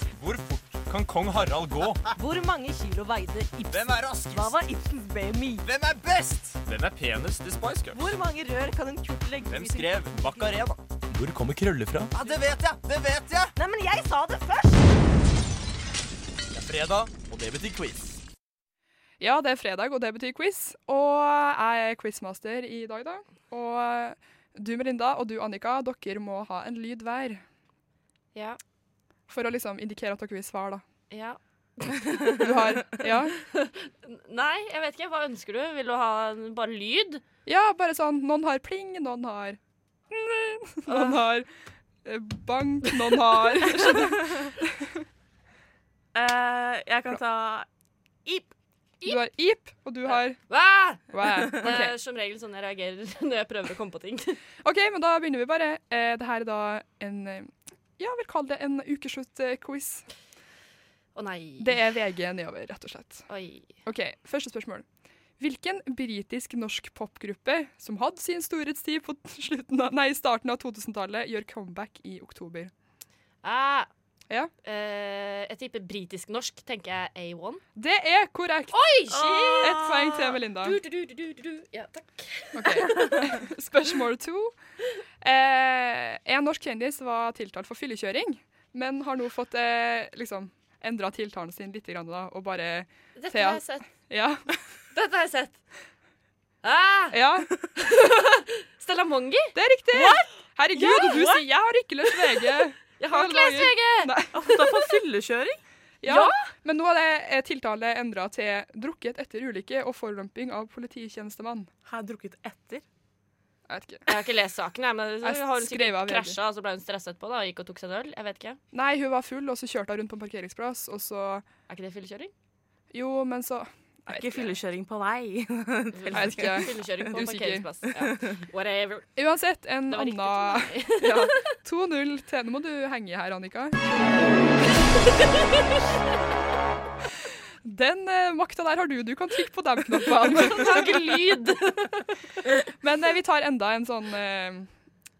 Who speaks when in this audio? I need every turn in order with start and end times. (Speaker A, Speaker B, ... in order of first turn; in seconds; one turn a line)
Speaker A: 0.1-2.1
Speaker B: 2.1-5.7
Speaker A: 3.7-4.6
Speaker A: 5.6-8.0
Speaker B: 7.9-10.7
Speaker A: 9.4-13.5
Speaker B: 12.1-12.5
Speaker B: 13.6-14.9
Speaker A: 16.5-18.2
Speaker C: 19.2-27.4
Speaker D: 28.4-28.6
Speaker C: 29.3-30.8
Speaker D: 31.1-37.2
Speaker C: 32.4-33.4
Speaker C: 37.5-39.6
Speaker C: 40.1-41.5
Speaker C: 42.0-45.0
Speaker D: 43.6-43.9
Speaker E: 46.1-47.6
Speaker E: 48.3-48.5
Speaker C: 49.0-50.4
Speaker D: 50.1-54.4
Speaker C: 51.1-51.9
Speaker C: 54.6-60.1
Speaker D: 61.1-61.8
Speaker C: 61.6-63.3
Speaker D: 63.3-63.7
Speaker C: 63.9-64.8
Speaker C: 65.4-72.7
Speaker D: 73.4-73.9
Speaker D: 74.6-77.6
Speaker C: 77.8-78.8
Speaker D: 78.7-83.4
Speaker E: 79.1-80.1
Speaker C: 79.6-80.8
Speaker C: 82.5-84.5
Speaker C: 85.2-94.6
Speaker D: 93.2-93.9
Speaker D: 94.9-95.6
Speaker D: 96.6-97.2
Speaker C: 97.1-97.5
Speaker D: 97.8-99.5
Speaker C: 99.5-104.3
Speaker D: 100.8-101.4
Speaker D: 103.0-104.7
Speaker E: 104.3-105.6
Speaker C: 106.0-111.7
Speaker D: 106.1-106.3
Speaker E: 111.9-112.8
Speaker C: 113.7-114.1
Speaker D: 114.1-118.6
Speaker C: 115.2-116.4
Speaker C: 118.7-121.5
Speaker D: 121.7-122.3
Speaker C: 122.9-124.5
Speaker E: 124.1-127.3
Speaker D: 125.9-129.1
Speaker C: 126.1-127.7
Speaker E: 127.9-128.4
Speaker C: 129.2-133.9
Speaker D: 129.9-131.4
Speaker C: 137.6-141.0
Speaker D: 140.2-142.0
Speaker C: 142.8-144.7